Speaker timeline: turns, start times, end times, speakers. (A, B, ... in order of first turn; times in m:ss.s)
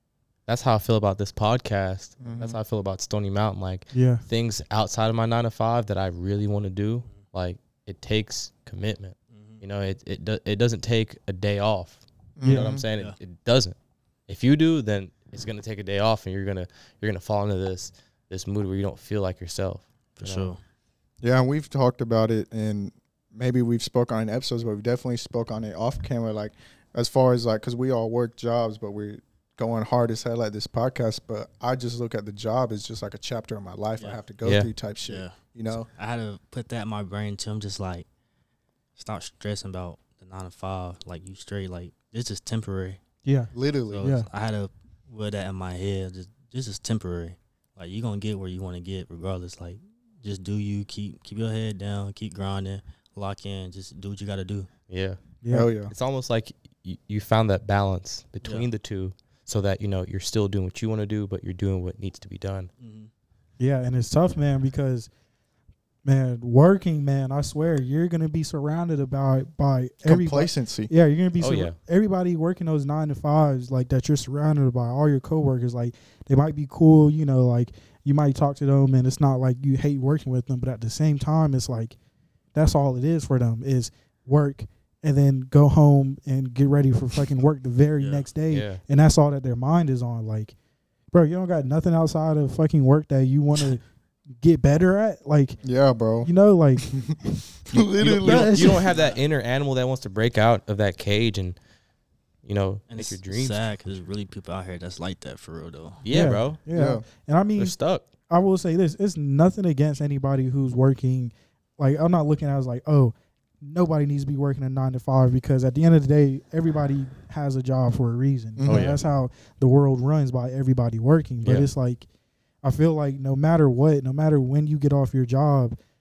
0:00.5-0:13.8 A
0:02.2-0:02.6 B
0:03.9-0:04.2 C
0:09.3-0:09.6 D
0:12.4-0:12.9 B
0:12.4-0:12.8 C
0:14.3-0:20.5 A
0:20.2-0:20.6 D
0:21.2-0:35.9 B
0:34.4-0:34.7 A
0:35.0-0:38.1 D
0:39.0-0:43.0 D
0:43.2-0:44.2 C
0:43.5-0:44.1 B
0:43.9-0:54.7 D
0:54.9-0:55.2 A
0:55.4-0:55.7 C
0:55.5-0:55.9 B
0:55.9-1:02.7 A
0:58.4-0:58.7 D
1:02.8-1:03.1 D
1:03.6-1:05.1 C
1:06.0-1:22.0 C
1:10.0-1:10.9 B
1:11.4-1:11.8 A
1:22.5-1:30.5 C
1:28.0-1:28.2 D
1:28.5-1:28.8 A
1:31.1-1:33.8 C
1:34.4-1:35.6 C
1:35.6-1:38.8 B
1:36.2-1:36.9 C
1:38.0-1:38.8 C
1:38.0-1:41.6 A
1:38.6-1:39.2 D
1:42.4-1:43.6 A
1:42.9-1:46.0 D
1:46.0-1:46.6 A
1:46.1-1:47.8 C
1:46.7-1:47.0 B
1:47.6-1:48.0 A
1:48.3-2:02.1 C
1:58.6-1:58.9 B
1:58.6-1:59.0 A
2:01.4-2:01.7 A
2:02.6-2:05.8 C